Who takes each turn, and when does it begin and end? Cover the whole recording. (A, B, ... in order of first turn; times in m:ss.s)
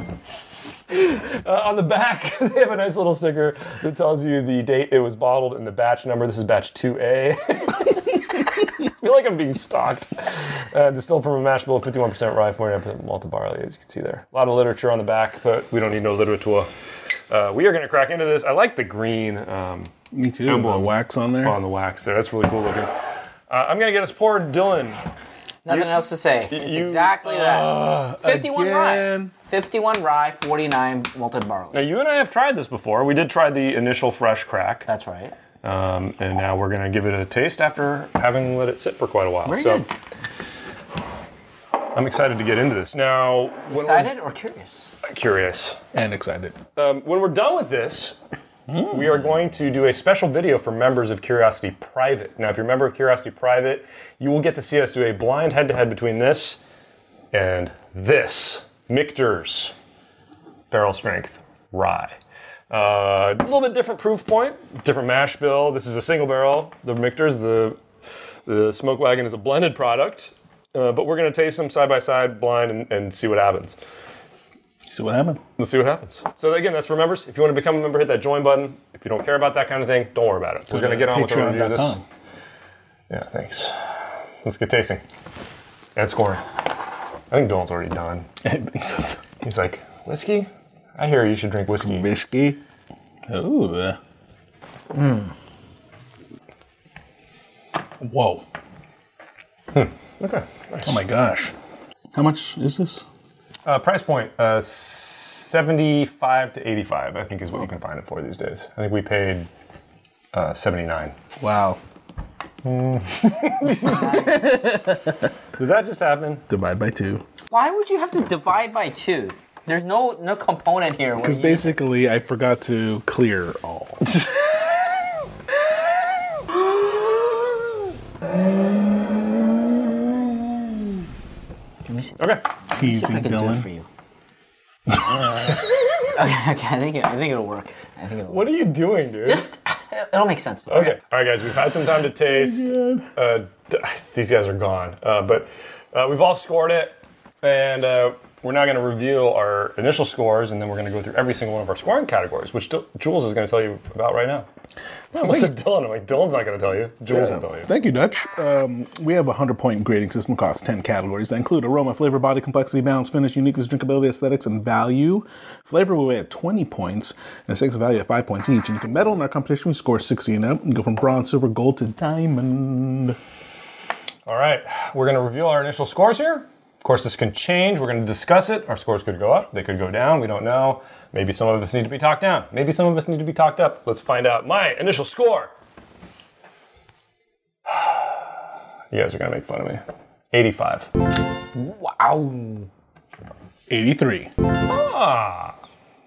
0:00.9-0:16.7 A
0:17.3-0:19.9 A
0:20.1-0:21.6 B
0:20.4-0:22.9 A
0:23.5-0:25.0 A
0:25.6-0:31.8 C
0:25.7-0:27.2 A
0:27.2-0:29.3 B
0:31.7-0:34.9 A
0:34.9-0:35.3 C
0:35.6-0:39.8 A
0:39.4-0:39.9 C
0:41.9-0:44.1 A
0:43.7-0:44.9 C
0:45.0-0:45.8 A
0:45.9-0:46.6 B
0:46.8-0:48.2 A
0:48.7-0:49.4 B
0:48.8-0:56.6 A
0:57.3-0:59.7 A
1:00.7-1:02.2 A
1:02.7-1:07.8 A
1:08.4-1:13.8 A
1:14.9-1:15.4 B
1:15.6-1:22.0 A
1:20.7-1:22.0 B
1:23.1-1:25.0 A
1:26.0-1:26.4 A
1:27.3-1:28.2 A
1:28.4-1:29.3 B
1:29.4-1:32.1 A
1:31.8-1:32.6 B
1:33.3-1:34.0 B
1:34.9-1:35.3 C
1:38.0-1:38.4 B
1:39.7-1:41.0 A
1:40.8-1:41.5 B
1:42.1-1:43.0 B
1:43.6-1:49.5 A
1:50.3-1:51.2 A
1:51.4-1:51.8 B
1:52.6-1:54.8 A
1:53.8-1:55.0 C
1:55.6-1:56.4 A
1:56.5-1:57.2 B
1:57.5-2:01.7 C
2:01.2-2:04.0 B
2:04.1-2:04.4 A
2:11.8-2:13.9 C
2:12.2-2:12.4 A
2:12.7-2:13.6 B
2:14.9-2:15.5 B
2:16.0-2:18.6 C
2:18.3-2:19.4 A
2:19.2-2:21.0 C
2:20.7-2:34.4 A
2:22.1-2:23.1 B
2:35.1-2:37.7 A
2:35.1-2:35.5 B
2:37.1-2:53.2 B
2:54.3-3:05.5 A
3:07.7-3:08.1 A
3:08.9-3:10.9 A
3:11.5-3:12.7 C
3:13.7-3:14.3 B
3:14.7-3:15.6 A